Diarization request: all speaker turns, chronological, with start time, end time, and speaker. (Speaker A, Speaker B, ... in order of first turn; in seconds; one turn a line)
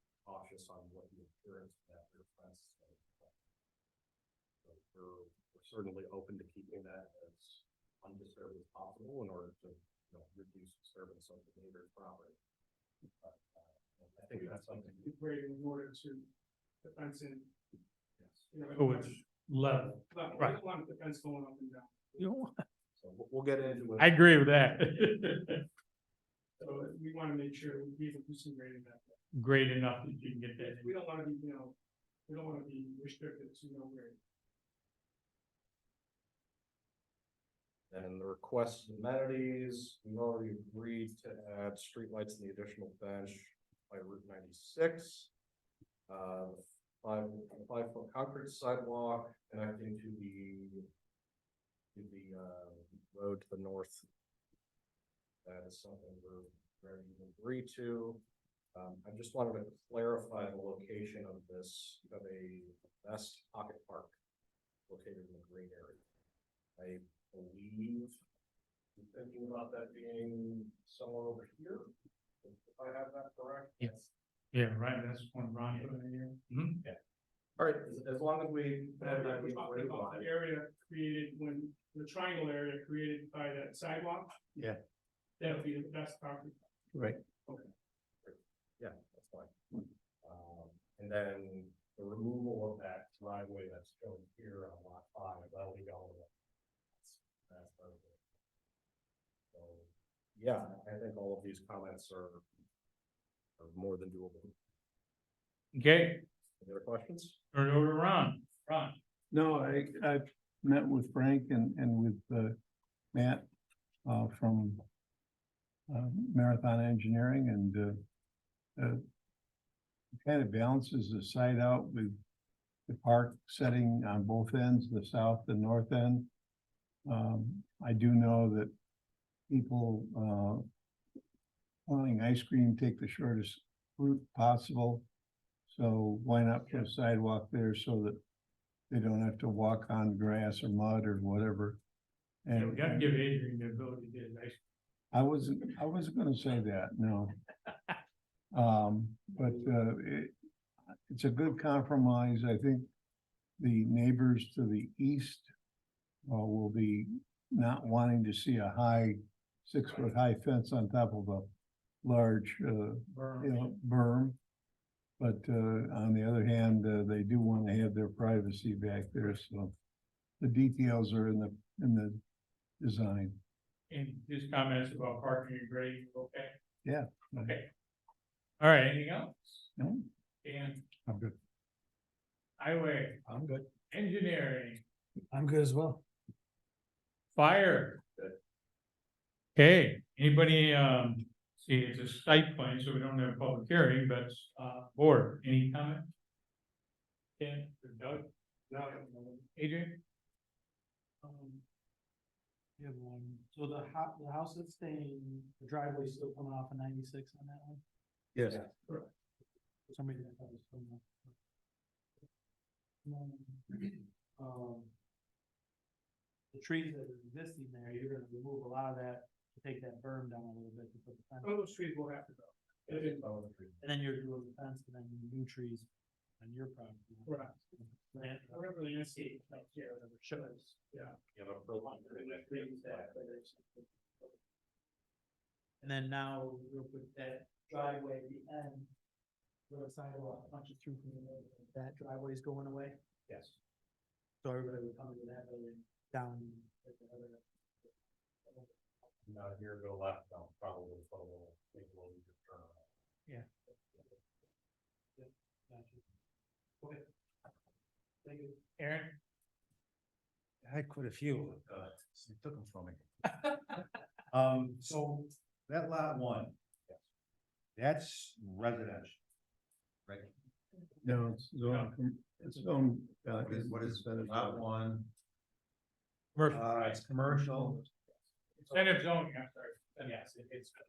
Speaker A: 0.2-3.3
Speaker A: 4.6-12.4
Speaker A: 13.2-15.1
Speaker B: 14.3-16.3
Speaker B: 16.8-17.5
Speaker A: 18.2-18.5
Speaker B: 18.5-19.2
Speaker C: 18.7-20.6
Speaker B: 20.1-22.3
Speaker C: 22.2-22.6
Speaker A: 23.0-24.5
Speaker C: 24.0-25.6
Speaker B: 26.6-29.2
Speaker C: 29.3-30.9
Speaker B: 30.6-31.8
Speaker B: 32.3-34.2
Speaker A: 37.9-45.3
Speaker A: 46.1-50.9
Speaker A: 52.0-54.1
Speaker A: 55.5-58.2
Speaker A: 58.8-64.1
Speaker A: 64.9-66.0
Speaker A: 66.8-68.2
Speaker A: 69.0-71.9
Speaker A: 72.4-74.1
Speaker C: 74.5-75.9
Speaker B: 75.8-76.4
Speaker C: 76.5-76.8
Speaker A: 77.6-80.3
Speaker B: 79.0-84.3
Speaker B: 85.4-86.7
Speaker D: 86.9-87.2
Speaker A: 88.2-89.5
Speaker A: 90.2-96.3
Speaker A: 97.0-98.2
Speaker A: 99.5-102.4
Speaker A: 103.6-104.5
Speaker C: 105.7-106.2
Speaker A: 106.6-107.4
Speaker C: 107.5-109.0
Speaker D: 109.3-112.6
Speaker D: 113.1-113.5
Speaker D: 114.0-114.8
Speaker D: 115.9-118.0
Speaker D: 118.8-119.0
Speaker D: 120.2-122.2
Speaker D: 122.9-126.3
Speaker D: 127.1-128.7
Speaker D: 129.5-130.7
Speaker D: 131.9-135.1
Speaker D: 135.7-138.2
Speaker D: 138.9-141.8
Speaker D: 142.4-143.1
Speaker C: 142.5-144.6
Speaker D: 145.1-147.3
Speaker D: 148.5-150.3
Speaker D: 151.1-152.9
Speaker D: 153.6-155.5
Speaker D: 156.3-161.5
Speaker D: 162.0-164.4
Speaker C: 163.1-163.7
Speaker D: 165.2-169.7
Speaker D: 170.4-172.2
Speaker D: 172.8-173.4
Speaker C: 173.9-176.6
Speaker D: 176.8-177.6
Speaker C: 177.3-177.7
Speaker C: 178.6-179.7
Speaker D: 179.8-180.1
Speaker C: 180.4-180.8
Speaker D: 181.1-181.3
Speaker C: 182.6-183.2
Speaker D: 183.3-183.6
Speaker C: 183.9-184.8
Speaker C: 187.3-188.0
Speaker C: 189.6-196.1
Speaker C: 197.4-198.3
Speaker C: 199.6-200.0
Speaker E: 201.2-201.6
Speaker E: 202.8-207.8
Speaker E: 209.9-211.3
Speaker E: 213.1-214.9
Speaker E: 216.5-221.7
Speaker B: 221.4-223.2
Speaker A: 222.9-223.8
Speaker E: 223.8-225.9
Speaker E: 226.4-230.8
Speaker B: 227.3-227.6
Speaker B: 228.2-229.9
Speaker B: 230.9-231.2
Speaker A: 231.3-233.2
Speaker E: 232.1-233.8
Speaker B: 232.2-233.3
Speaker E: 235.8-238.9
Speaker E: 239.7-243.0
Speaker E: 244.4-247.9
Speaker A: 249.2-252.8
Speaker E: 255.2-256.0
Speaker E: 258.2-258.6
Speaker C: 258.8-259.2
Speaker F: 260.6-263.1
Speaker F: 264.3-266.6
Speaker F: 267.8-269.2
Speaker D: 271.0-274.6
Speaker C: 271.7-271.9
Speaker F: 273.3-275.1
Speaker C: 276.4-277.0
Speaker F: 276.5-277.9
Speaker C: 278.7-280.2
Speaker A: 280.1-280.4